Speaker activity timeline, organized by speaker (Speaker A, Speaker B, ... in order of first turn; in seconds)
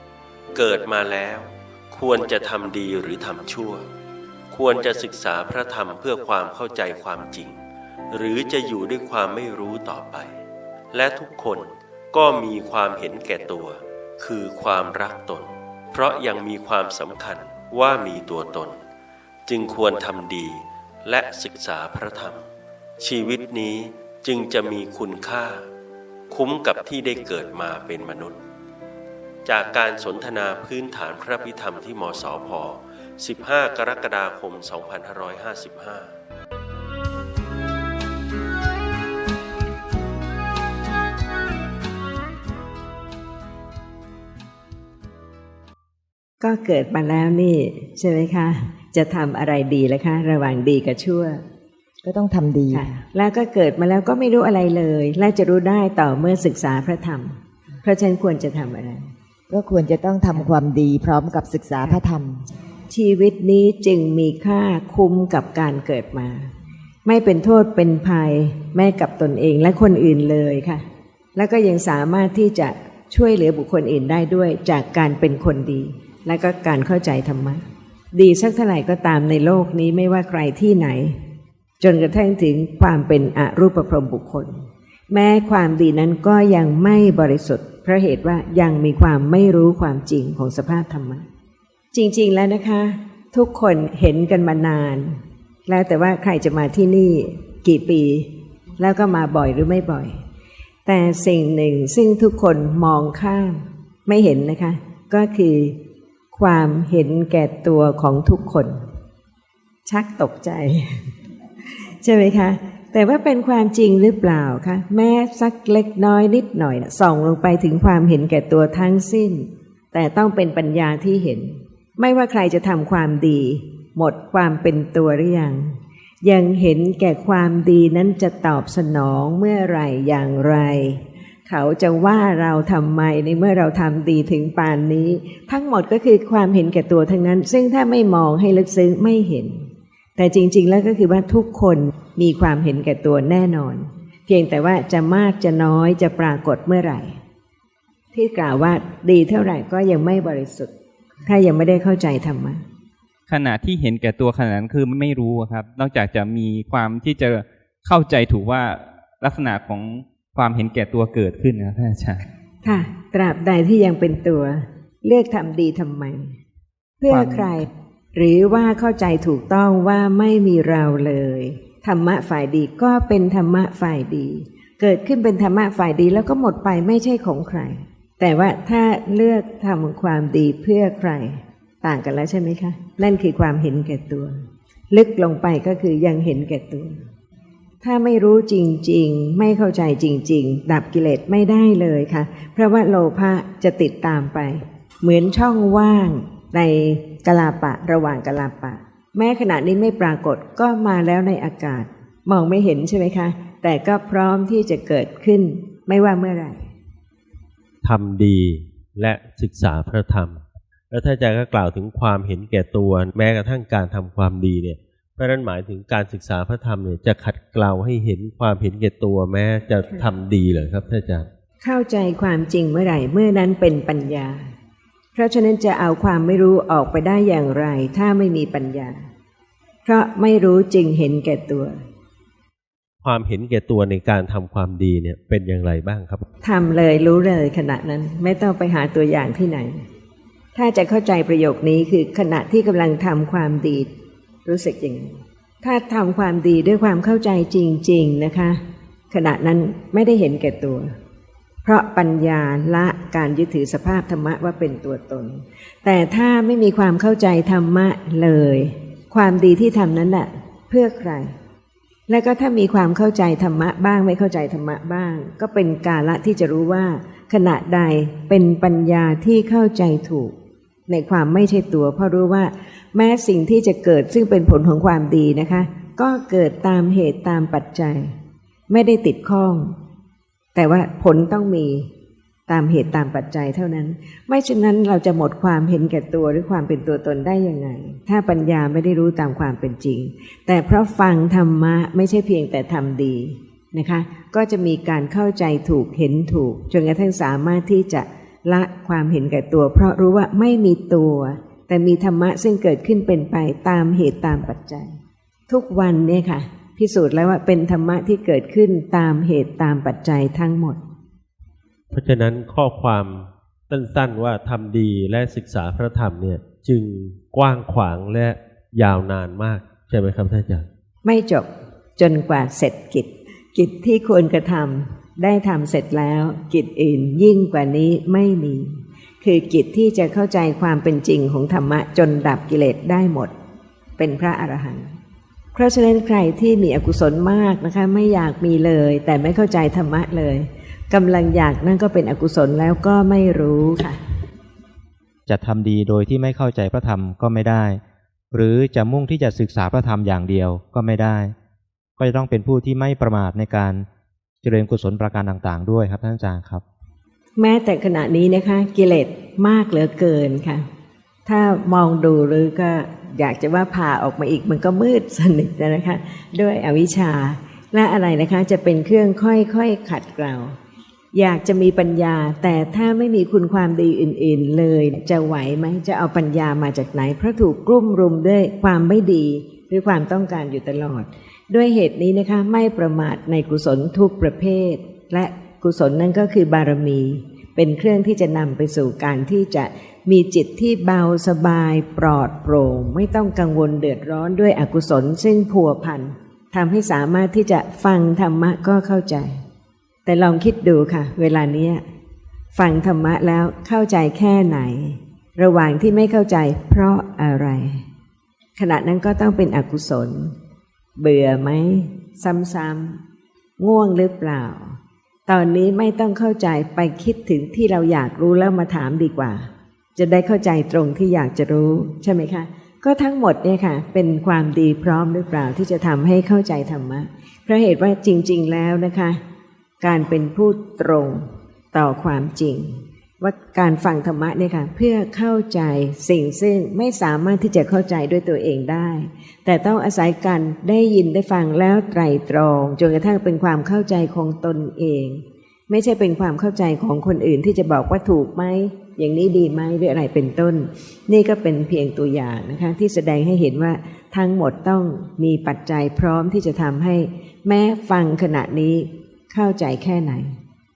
Speaker A: 0.5-3.8, 4.5-7.6, 8.1-10.3, 10.9-18.8, 19.5-22.4, 23.0-25.6, 26.3-28.4, 29.4-36.1, 207.8-221.3, 233.0-236.2, 311.9-320.6
Speaker B: 46.4-51.4, 52.7-59.0, 62.9-66.5, 67.0-70.8, 71.3-77.6, 78.1-81.2, 81.8-84.5, 85.1-91.2, 91.9-100.2, 100.8-105.8, 106.3-108.8, 109.8-111.0, 112.0-147.1, 148.1-150.7, 151.2-152.6, 162.6-166.3, 167.0-184.3, 184.9-187.0, 187.8-206.6, 221.6-224.5, 225.1-229.0, 229.8-231.8, 236.4-239.8, 240.5-243.9, 244.4-248.6, 249.1-250.9, 251.6-261.3, 262.1-270.3, 270.9-278.1, 278.7-279.7, 280.5-281.9, 282.5-304.9, 305.5-310.8, 321.0-333.3, 334.0-334.9, 335.5-344.0, 357.4-360.6, 361.2-370.5, 371.1-399.4, 400.0-401.8, 402.5-407.8, 408.6-410.3, 411.0-413.0, 413.6-429.2, 429.8-460.3
Speaker C: 52.0-52.8, 59.5-62.4
Speaker D: 153.3-162.2, 167.1-167.6
Speaker E: 345.3-347.8, 348.3-351.3, 352.0-353.9, 354.4-356.6